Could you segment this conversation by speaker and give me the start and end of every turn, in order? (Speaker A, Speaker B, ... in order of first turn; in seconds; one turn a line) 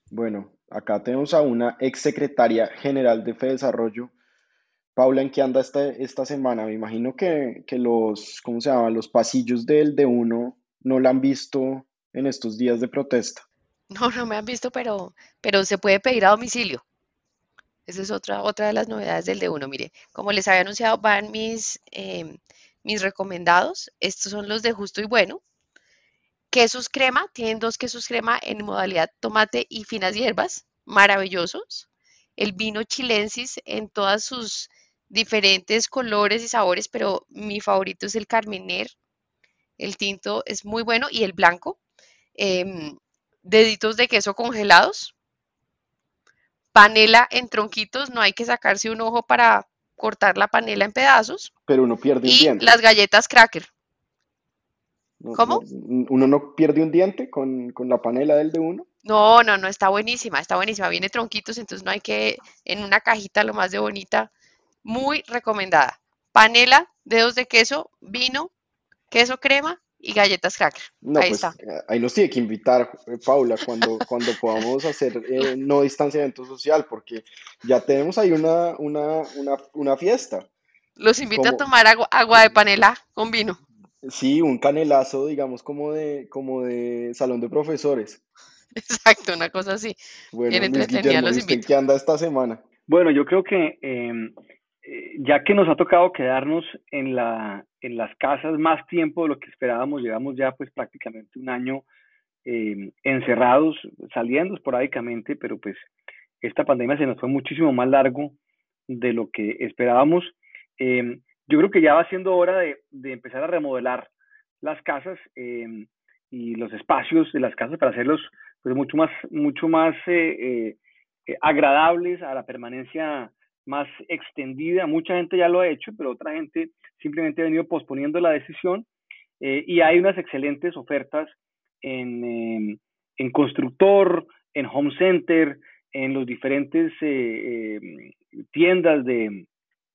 Speaker A: 0.1-4.1
Speaker A: 5.0-13.4
Speaker B: 13.9-16.8
Speaker B: 17.9-25.4
Speaker B: 26.5-38.9
Speaker B: 39.8-41.8
Speaker B: 42.4-45.1
Speaker B: 46.7-51.5
Speaker A: 51.7-52.7
Speaker B: 52.2-53.7
Speaker A: 55.2-58.9
Speaker B: 55.4-55.6
Speaker B: 59.0-64.3
Speaker B: 64.8-68.5
Speaker B: 69.1-71.5
Speaker A: 71.0-80.5
Speaker B: 81.0-83.6
Speaker A: 81.4-81.7
Speaker A: 84.0-88.2
Speaker B: 88.8-90.0
Speaker A: 90.3-92.6
Speaker B: 90.5-91.7
Speaker C: 92.9-94.3
Speaker C: 94.8-101.8
Speaker C: 102.5-105.9
Speaker C: 106.4-108.4
Speaker C: 108.9-114.1
Speaker C: 114.6-120.8
Speaker C: 121.3-128.9
Speaker C: 129.4-139.5